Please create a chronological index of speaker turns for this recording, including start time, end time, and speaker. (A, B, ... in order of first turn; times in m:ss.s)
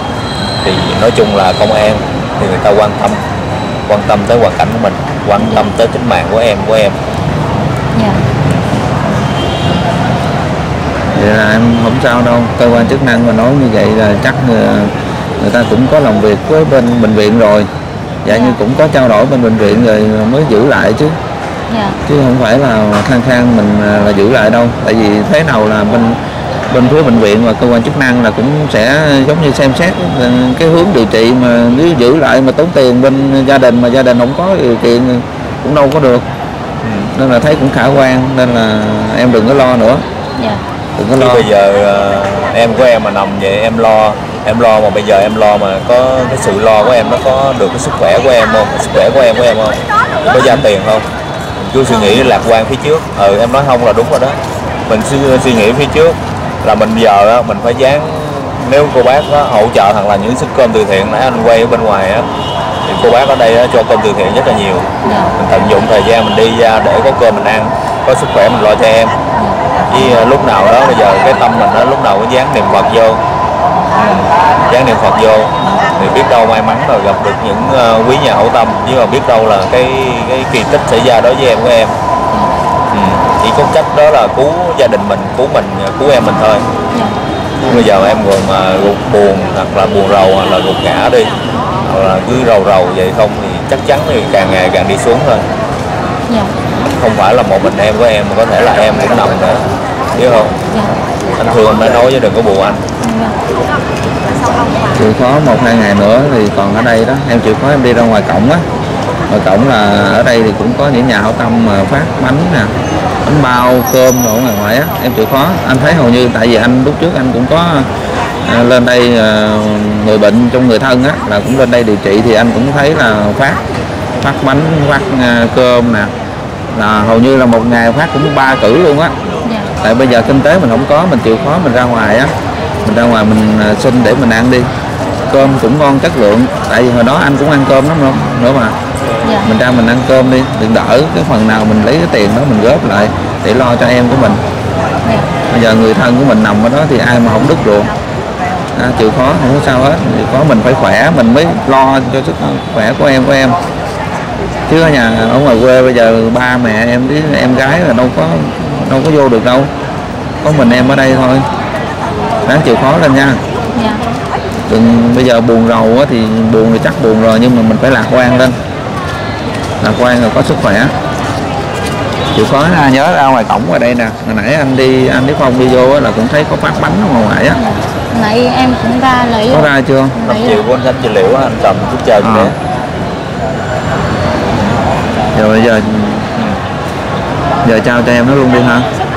0:00.6-0:03.2 A
0:03.9-0:07.0 A
0:05.4-0:05.7 B
0:07.9-0:08.2 B
0:11.2-0:17.7 C
0:12.7-0:13.0 A
0:18.2-0:21.2 C
0:18.3-0:18.6 B
0:21.7-0:22.0 B
0:22.1-0:26.2 C
0:26.7-0:36.2 C
0:36.8-0:37.1 A
0:37.1-0:40.0 C
0:40.4-0:40.6 B
0:41.0-0:41.4 C
0:41.2-0:51.1 A
0:51.6-1:02.3 A
0:51.9-0:52.3 B
1:02.8-1:09.1 A
1:05.0-1:05.3 B
1:09.4-1:10.2 B
1:09.9-1:13.2 A
1:14.7-1:21.9 A
1:22.9-1:26.6 A
1:27.7-1:31.3 A
1:31.8-1:35.4 A
1:36.8-1:40.5 A
1:41.4-1:42.8 A
1:43.0-1:43.4 B
1:44.9-1:48.6 C
1:49.3-1:52.7 C
1:53.2-1:57.9 C
1:58.4-2:03.6 C
2:04.2-2:06.1 C
2:06.7-2:09.1 C
2:09.4-2:09.7 B
2:09.8-2:12.3 C
2:12.8-2:14.7 C
2:15.3-2:18.8 C
2:19.2-2:19.5 B
2:19.4-2:24.4 C
2:25.0-2:25.3 B
2:25.5-2:27.9 C
2:28.7-2:33.6 C
2:34.7-2:39.7 C
2:40.4-2:41.4 C
2:42.4-2:43.4 C
2:43.7-2:44.0 B
2:44.7-2:48.6 C
2:49.8-2:50.9 C
2:52.3-2:57.6 C
2:57.5-3:00.6 B
2:59.5-3:00.1 C
3:00.2-3:02.6 A
3:02.2-3:02.5 C
3:05.3-3:06.3 C
3:07.6-3:08.9 C